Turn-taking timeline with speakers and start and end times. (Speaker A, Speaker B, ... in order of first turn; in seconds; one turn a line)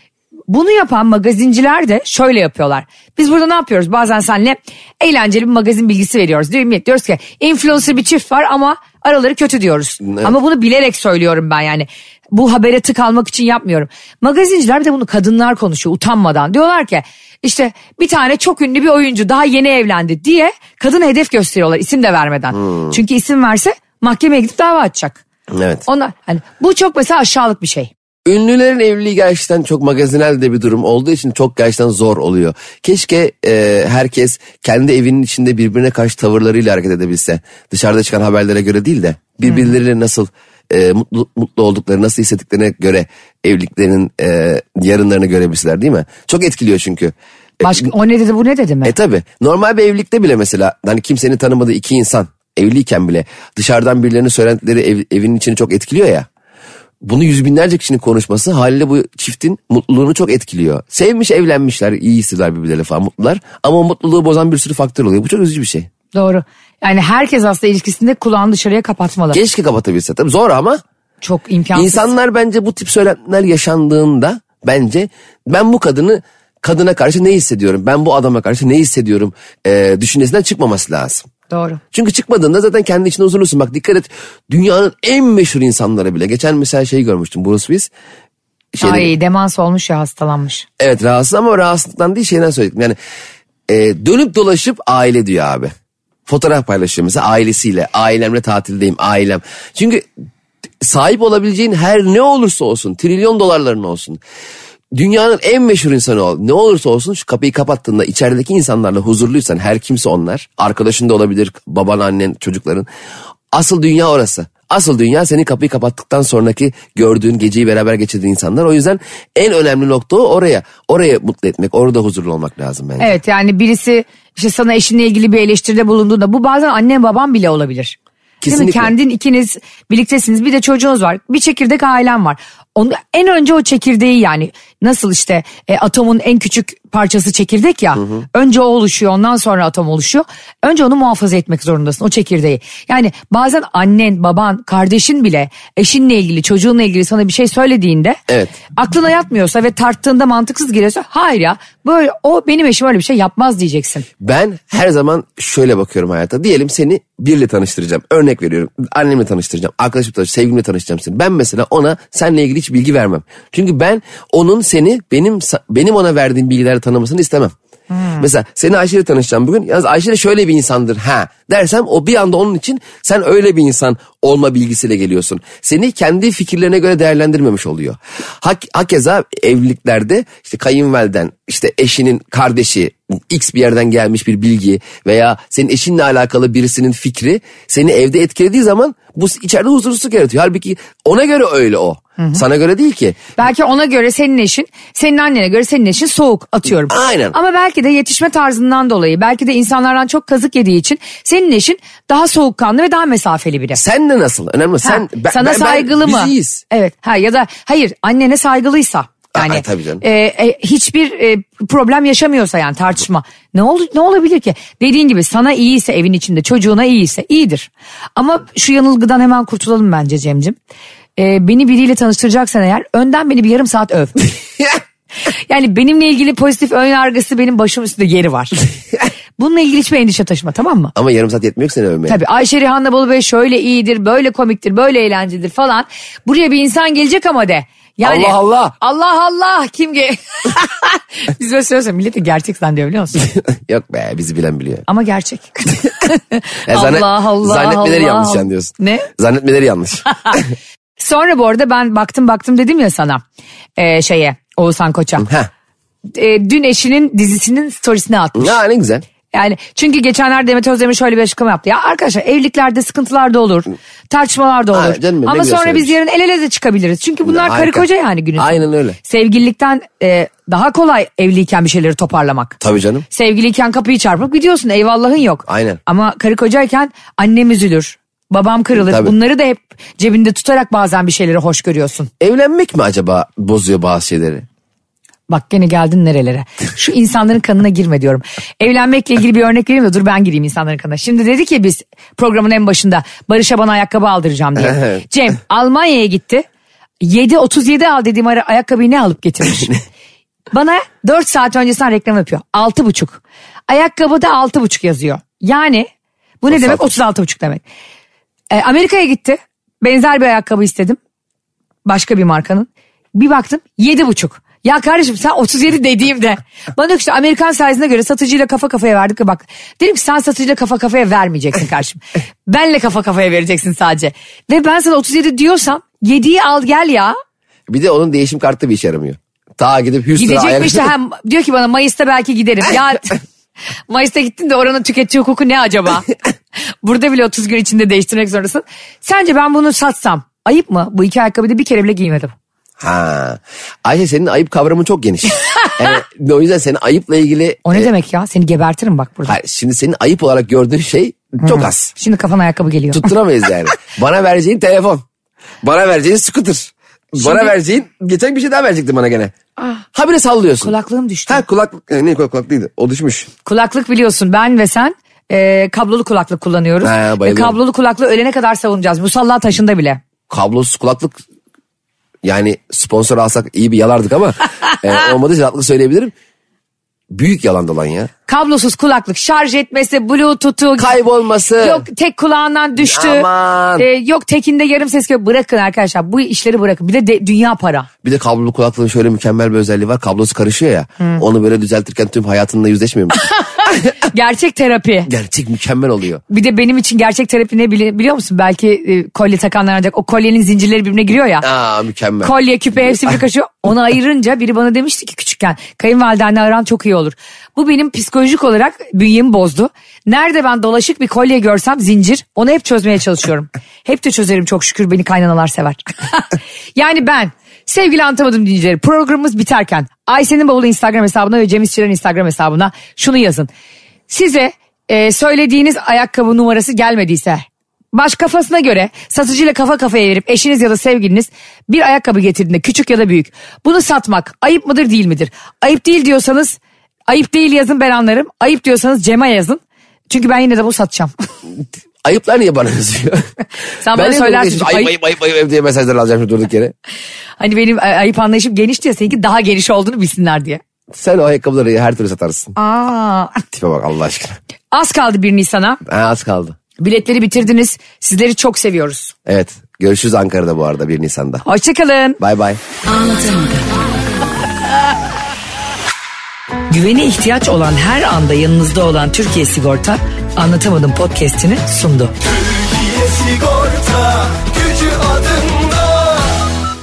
Speaker A: 0.5-25.2
Speaker B: 10.0-10.3
Speaker B: 22.5-22.9
Speaker B: 25.5-25.8
Speaker A: 25.9-27.9
Speaker B: 28.2-47.9
Speaker A: 47.6-48.9
Speaker B: 48.8-56.3
Speaker B: 57.0-65.9
Speaker A: 66.1-69.4
Speaker B: 69.3-70.8
Speaker A: 71.2-72.1
Speaker B: 71.7-81.3
Speaker A: 81.5-81.8
Speaker B: 81.9-87.9
Speaker B: 88.7-89.1
Speaker A: 88.8-90.7
Speaker B: 90.8-93.0
Speaker B: 93.7-95.7
Speaker B: 96.3-100.0
Speaker B: 100.8-104.2
Speaker B: 104.9-112.9
Speaker B: 113.5-123.2
Speaker A: 123.0-128.0
Speaker B: 128.4-128.9
Speaker A: 128.5-148.2
Speaker B: 148.3-148.5
Speaker A: 148.7-154.1
Speaker B: 154.2-167.5
Speaker A: 167.9-168.3
Speaker B: 168.2-193.2
Speaker A: 193.4-203.8
Speaker B: 196.9-197.3
Speaker B: 203.7-206.6
Speaker A: 204.8-220.6
Speaker B: 209.3-210.0
Speaker A: 221.2-224.3
Speaker A: 225.2-228.6
Speaker A: 229.4-230.9
Speaker B: 230.9-232.2
Speaker A: 232.1-243.3
Speaker B: 238.0-238.7
Speaker B: 243.2-244.8
Speaker A: 244.9-249.1
Speaker B: 246.7-250.5
Speaker A: 251.0-253.2
Speaker A: 253.8-255.3
Speaker B: 255.2-255.5
Speaker A: 256.1-258.6
Speaker B: 258.3-259.1
Speaker A: 259.3-272.6
Speaker B: 264.7-265.9
Speaker B: 267.2-267.8
Speaker B: 268.4-269.0
Speaker B: 272.6-273.0
Speaker A: 273.1-282.1
Speaker B: 275.5-275.8
Speaker B: 278.7-279.1
Speaker B: 282.2-284.4
Speaker A: 285.3-296.4
Speaker B: 294.6-295.0
Speaker A: 297.0-299.8
Speaker A: 300.5-305.9
Speaker A: 306.4-307.6
Speaker B: 306.5-306.9
Speaker A: 308.5-311.0
Speaker A: 311.8-327.2
Speaker B: 327.7-330.9
Speaker A: 330.1-333.2
Speaker A: 333.9-336.1
Speaker A: 336.6-342.3
Speaker B: 342.8-347.9
Speaker A: 347.6-349.3
Speaker B: 349.3-351.9
Speaker A: 351.4-353.1
Speaker B: 352.9-355.0
Speaker B: 355.6-359.3
Speaker A: 357.1-357.5
Speaker A: 359.6-359.8
Speaker B: 359.9-360.7
Speaker A: 360.6-361.4
Speaker B: 361.3-363.3
Speaker A: 363.4-370.0
Speaker B: 366.8-367.6
Speaker B: 370.3-371.2
Speaker B: 372.2-376.1
Speaker B: 377.1-378.1
Speaker A: 378.3-380.9
Speaker B: 380.8-381.9
Speaker A: 381.6-387.9
Speaker B: 382.8-383.9
Speaker B: 388.0-393.2
Speaker A: 393.1-395.1
Speaker B: 395.1-396.2
Speaker A: 396.3-401.5
Speaker B: 401.4-402.3
Speaker A: 402.2-423.5
Speaker A: 424.1-441.1
Speaker B: 442.0-443.3
Speaker A: 443.8-444.9
Speaker B: 443.9-446.7
Speaker A: 447.4-450.6
Speaker B: 450.9-452.6
Speaker A: 452.6-453.4
Speaker B: 453.5-454.4
Speaker A: 454.7-455.8
Speaker B: 455.9-456.6
Speaker A: 456.8-459.1
Speaker B: 459.2-461.4
Speaker A: 461.4-462.2
Speaker B: 462.2-462.6
Speaker A: 462.9-463.8
Speaker A: 466.7-472.1
Speaker C: 472.6-475.9